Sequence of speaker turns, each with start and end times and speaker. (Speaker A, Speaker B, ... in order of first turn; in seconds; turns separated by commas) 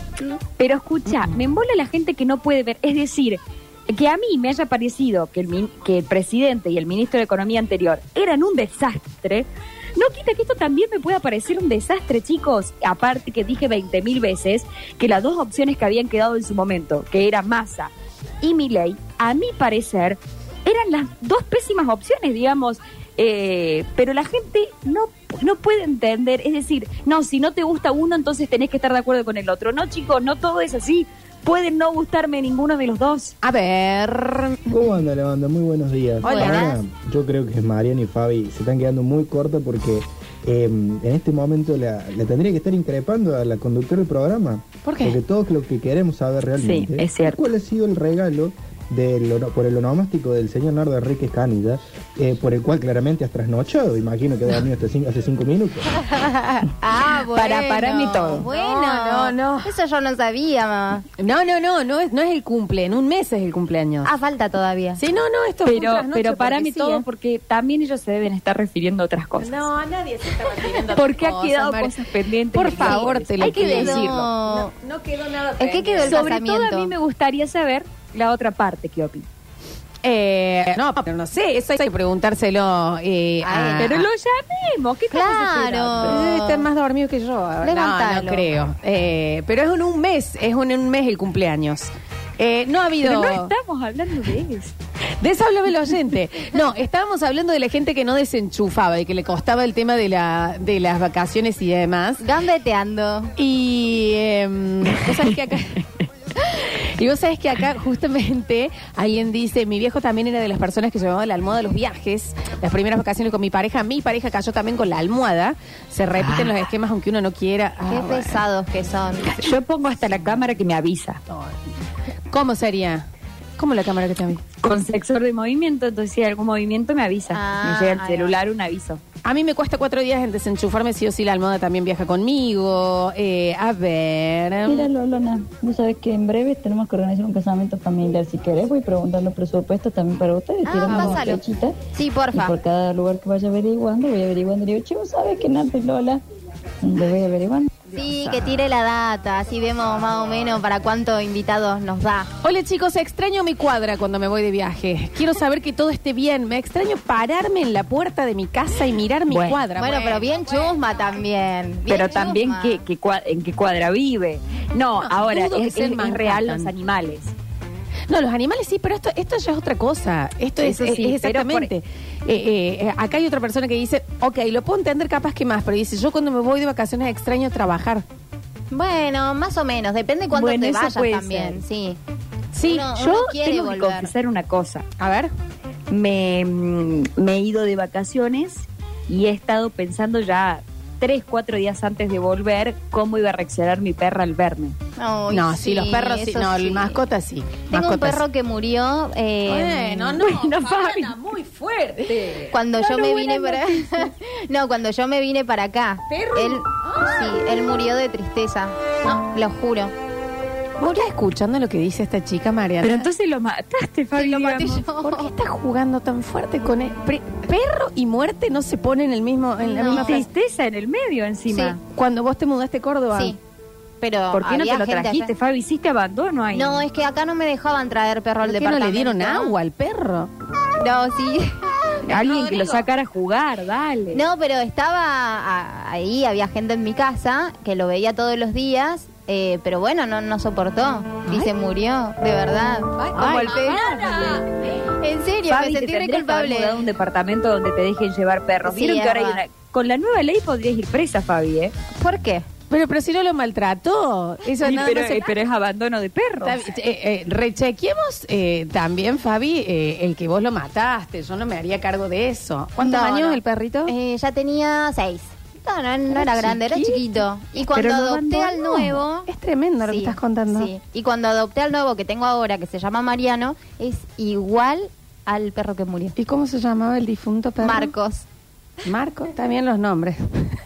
Speaker A: 0.6-33.4, Speaker B: 33.4-34.6, Speaker C: 34.7-55.9, Speaker B: 36.2-36.8, Speaker D: 36.2-36.8, Speaker B: 44.8-45.2, Speaker A: 46.6-47.5, Speaker D: 56.0-61.1, Speaker A: 57.3-58.5, Speaker B: 58.5-59.7, Speaker B: 61.2-64.1, Speaker D: 64.0-65.0, Speaker B: 65.0-67.0, Speaker A: 65.7-69.7, Speaker B: 69.4-72.0, Speaker A: 70.9-74.3, Speaker B: 72.5-76.3, Speaker D: 72.8-74.7, Speaker D: 75.6-76.9, Speaker A: 76.0-79.3, Speaker B: 80.0-84.0, Speaker D: 83.4-84.1, Speaker A: 83.8-86.2, Speaker D: 85.1-86.7, Speaker B: 86.0-93.5, Speaker D: 87.6-88.5, Speaker A: 93.0-94.8, Speaker B: 95.2-102.2, Speaker D: 102.2-103.3, Speaker B: 103.4-105.8, Speaker B: 106.4-118.5, Speaker A: 116.2-116.5, Speaker D: 117.8-119.3, Speaker A: 119.3-121.2, Speaker B: 122.3-123.1, Speaker B: 123.6-124.4, Speaker A: 124.6-129.0, Speaker D: 127.3-128.3, Speaker B: 129.2-134.9, Speaker E: 134.7-141.8, Speaker D: 140.7-141.4, Speaker B: 140.9-141.3, Speaker D: 141.9-142.6, Speaker E: 142.3-146.2, Speaker E: 146.8-147.7, Speaker B: 147.9-148.7, Speaker D: 147.9-152.3, Speaker B: 152.4-160.5, Speaker A: 159.3-159.7, Speaker D: 159.8-162.8, Speaker A: 161.9-167.3, Speaker B: 165.0-166.7, Speaker B: 168.1-178.1, Speaker A: 170.6-171.7, Speaker D: 178.7-182.0, Speaker A: 180.3-181.6, Speaker B: 182.5-182.9, Speaker D: 182.6-184.1, Speaker A: 182.9-184.9, Speaker B: 185.0-185.3, Speaker A: 185.9-194.8, Speaker D: 195.0-197.0, Speaker B: 195.3-198.2, Speaker D: 197.7-200.2, Speaker B: 199.5-204.1, Speaker A: 200.2-201.1, Speaker D: 202.5-209.9, Speaker B: 206.1-207.4, Speaker B: 210.8-213.1, Speaker A: 212.8-214.8, Speaker D: 214.2-215.3, Speaker B: 215.0-220.3, Speaker D: 219.6-220.3, Speaker A: 219.9-221.8, Speaker B: 221.9-223.4, Speaker D: 224.0-225.3, Speaker A: 224.3-226.8, Speaker D: 226.5-229.6, Speaker B: 228.4-230.3, Speaker D: 230.8-231.6, Speaker A: 232.1-234.2, Speaker B: 232.1-232.8, Speaker D: 234.1-244.1, Speaker B: 241.2-241.5, Speaker B: 243.0-244.5, Speaker A: 243.2-244.1, Speaker D: 245.0-246.8, Speaker A: 245.5-251.7, Speaker D: 248.6-249.4, Speaker D: 252.0-252.5, Speaker B: 252.7-255.3, Speaker A: 254.6-256.6, Speaker B: 256.4-263.9, Speaker D: 262.8-269.3, Speaker B: 266.1-267.1, Speaker A: 267.6-269.0, Speaker B: 269.3-270.7, Speaker D: 269.9-276.1, Speaker B: 276.2-277.9, Speaker D: 277.6-278.2, Speaker B: 278.9-280.2